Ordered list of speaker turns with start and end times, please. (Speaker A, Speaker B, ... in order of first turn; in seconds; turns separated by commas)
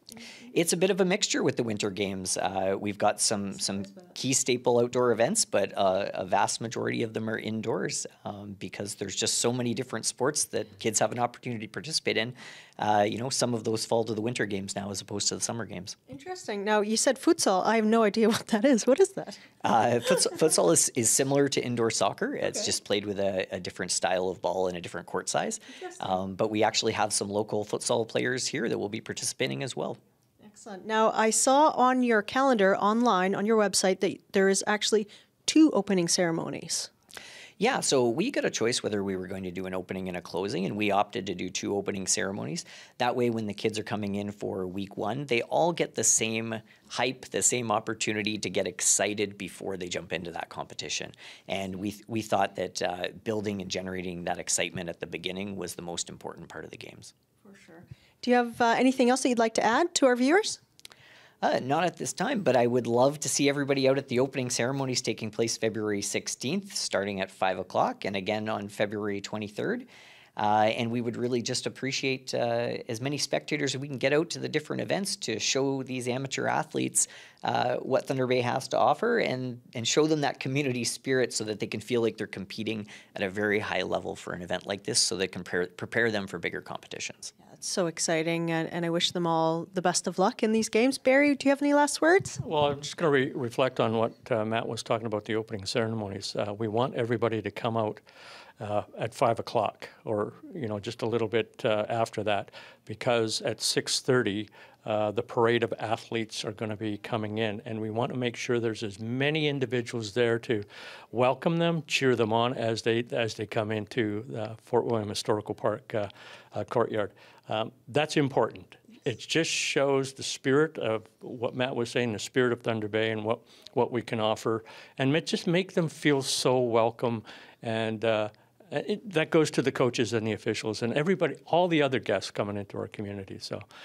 Speaker A: 0.5-16.0, Speaker B: 16.1-19.4, Speaker A: 19.6-30.0, Speaker B: 30.4-36.9, Speaker A: 37.6-57.1, Speaker B: 57.5-60.6, Speaker A: 61.4-87.3, Speaker B: 87.5-92.4, Speaker C: 92.4-98.0, Speaker C: 98.6-133.6